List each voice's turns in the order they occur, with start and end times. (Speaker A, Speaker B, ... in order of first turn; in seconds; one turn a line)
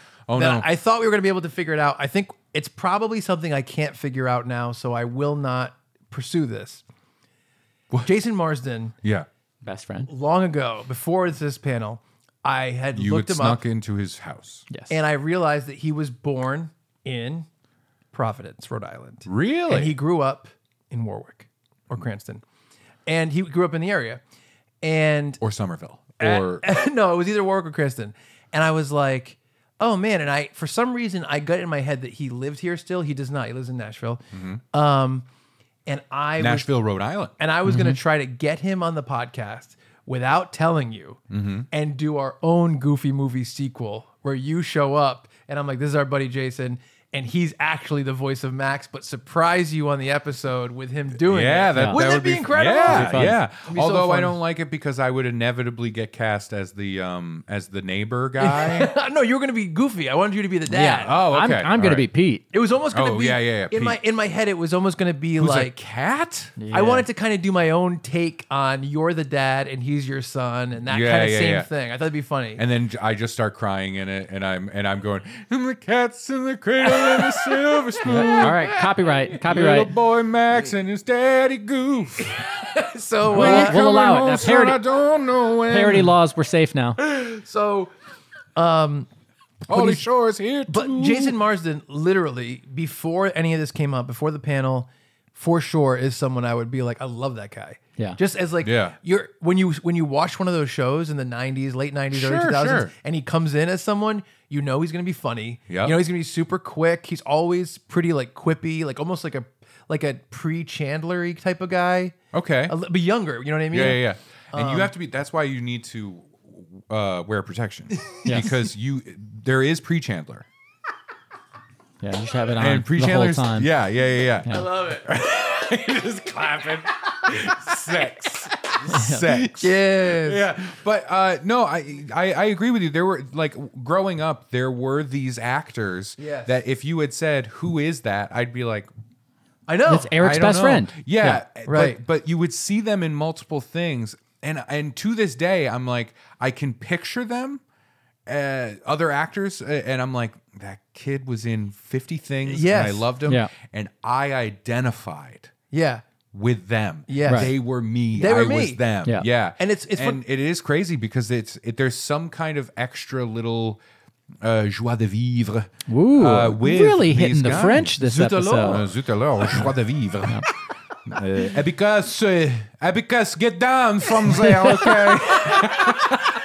Speaker A: 0.3-0.7
Speaker B: 0.3-6.8
Speaker B: 8.0-8.9
Speaker C: 9.6-10.1
Speaker B: 10.1-13.6
Speaker A: 12.9-14.7
Speaker C: 14.7-15.0
Speaker B: 14.9-17.5
Speaker B: 18.1-22.4
Speaker A: 19.3-20.0
Speaker B: 23.1-24.2
Speaker B: 24.8-25.4
Speaker A: 25.4-26.6
Speaker B: 26.2-35.3
Speaker A: 34.3-34.6
Speaker B: 35.9-36.7
Speaker A: 36.4-37.3
Speaker B: 37.4-54.4
Speaker C: 37.7-38.0
Speaker A: 41.3-41.7
Speaker A: 51.2-58.9
Speaker C: 51.8-53.4
Speaker B: 58.4-61.1
Speaker C: 60.7-62.4
Speaker A: 61.0-62.1
Speaker B: 62.5-65.8
Speaker A: 62.9-64.0
Speaker A: 65.4-66.6
Speaker C: 66.6-67.0
Speaker B: 66.7-72.6
Speaker A: 70.9-71.7
Speaker A: 72.6-82.3
Speaker B: 76.9-78.4
Speaker C: 78.0-80.0
Speaker B: 82.2-83.8
Speaker A: 83.3-86.1
Speaker C: 83.3-84.9
Speaker C: 85.6-87.0
Speaker B: 87.0-87.9
Speaker B: 88.6-89.1
Speaker A: 89.7-91.4
Speaker B: 89.7-90.0
Speaker B: 90.7-112.2
Speaker A: 98.6-99.0
Speaker A: 102.1-102.9
Speaker A: 105.7-106.0
Speaker A: 112.3-112.8
Speaker B: 112.7-114.9
Speaker A: 113.7-120.5
Speaker C: 118.2-118.7
Speaker C: 122.0-123.7
Speaker A: 122.6-138.9
Speaker C: 124.5-124.7
Speaker C: 128.9-129.4
Speaker B: 129.3-130.5
Speaker B: 136.2-136.6
Speaker B: 139.7-140.1
Speaker C: 139.9-141.4
Speaker A: 140.1-147.6
Speaker B: 141.6-142.0
Speaker A: 148.3-155.5
Speaker B: 152.4-153.1
Speaker C: 153.2-153.5
Speaker B: 155.7-156.0
Speaker A: 156.3-163.8
Speaker B: 157.1-157.6
Speaker C: 157.2-157.5
Speaker B: 158.1-158.8
Speaker B: 159.6-160.2
Speaker A: 164.4-170.5
Speaker C: 165.9-168.9
Speaker A: 171.1-176.2
Speaker B: 174.8-176.1